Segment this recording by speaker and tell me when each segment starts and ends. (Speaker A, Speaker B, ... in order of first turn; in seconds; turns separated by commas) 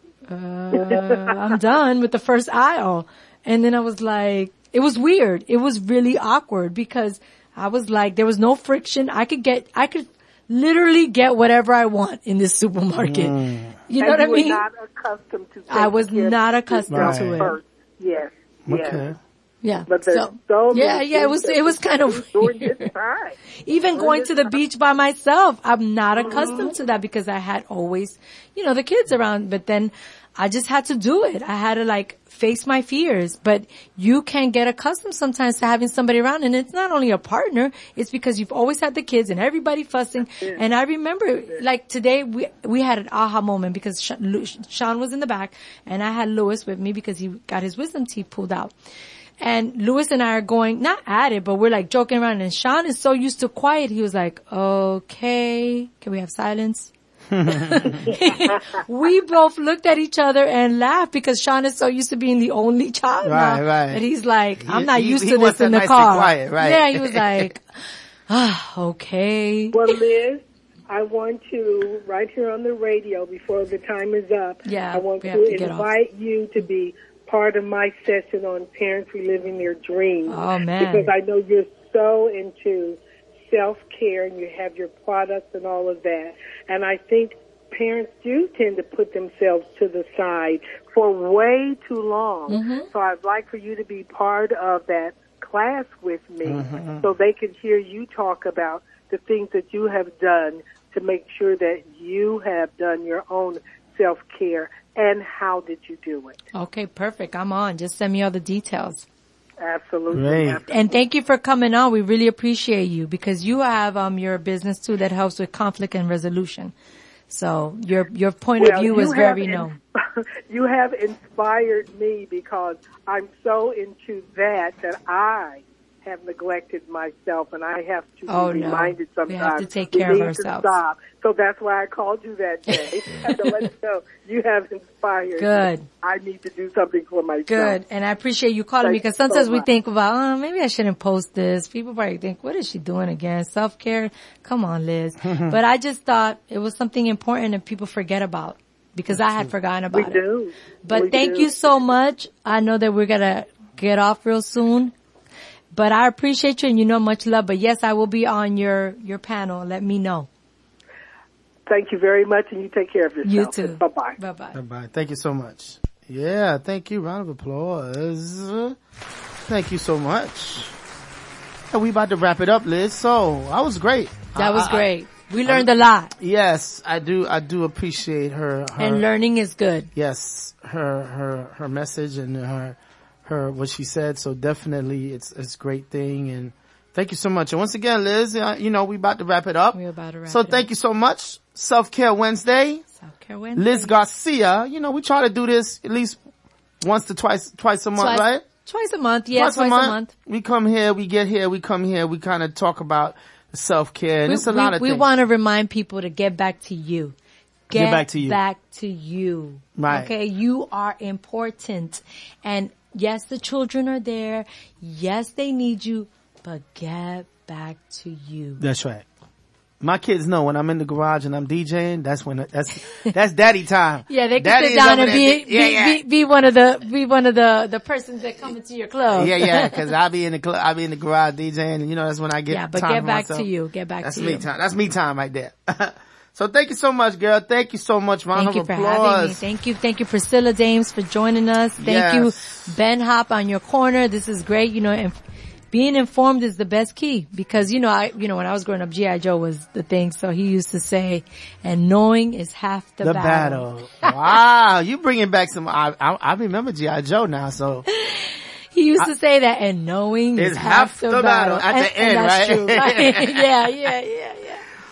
Speaker A: 0.3-13.4, Speaker B: 0.7-1.4, Speaker C: 13.0-13.8, Speaker A: 13.9-14.6, Speaker B: 14.0-19.1, Speaker A: 15.7-17.6, Speaker C: 16.9-17.4, Speaker C: 18.7-19.2, Speaker A: 19.6-22.9, Speaker B: 19.9-23.4, Speaker A: 23.6-48.7, Speaker B: 23.9-24.5, Speaker B: 26.2-26.7, Speaker B: 40.3-40.6, Speaker A: 49.4-56.9, Speaker C: 57.3-58.0, Speaker A: 57.5-67.7, Speaker C: 63.3-64.0, Speaker C: 64.7-67.5, Speaker A: 68.3-69.9, Speaker B: 69.7-106.4, Speaker A: 74.7-75.9, Speaker A: 80.3-81.1, Speaker A: 92.5-92.9, Speaker C: 96.4-97.1, Speaker A: 106.5-109.1, Speaker B: 109.6-110.9, Speaker C: 110.1-110.6, Speaker A: 110.7-116.7, Speaker A: 117.3-119.8, Speaker B: 118.6-137.8, Speaker A: 128.3-130.8, Speaker A: 132.7-133.6, Speaker A: 135.4-135.9, Speaker A: 137.5-150.2, Speaker B: 138.8-139.7, Speaker C: 145.2-145.6, Speaker C: 149.1-149.5, Speaker B: 149.9-151.7, Speaker A: 150.8-154.9, Speaker A: 155.7-160.3, Speaker B: 161.7-164.2, Speaker A: 163.2-164.6, Speaker C: 164.5-168.8, Speaker C: 169.5-170.7, Speaker C: 171.7-174.9, Speaker A: 174.4-176.1, Speaker C: 175.5-179.1, Speaker A: 178.8-179.9, Speaker C: 180.0-189.8, Speaker A: 189.7-190.7, Speaker C: 190.3-192.8, Speaker A: 193.0-193.9, Speaker C: 193.6-196.2, Speaker C: 196.8-198.4, Speaker A: 198.0-200.1, Speaker C: 199.3-205.1, Speaker A: 204.3-207.2, Speaker A: 207.7-218.6, Speaker C: 207.7-208.4, Speaker C: 209.8-210.1, Speaker C: 218.6-219.1, Speaker C: 219.8-226.0, Speaker A: 224.1-229.8, Speaker C: 229.1-233.5, Speaker A: 232.5-234.5, Speaker C: 234.0-239.4, Speaker A: 238.3-245.2, Speaker C: 241.8-242.7, Speaker A: 245.7-254.1, Speaker C: 253.0-257.9, Speaker A: 258.0-264.6, Speaker C: 260.4-263.6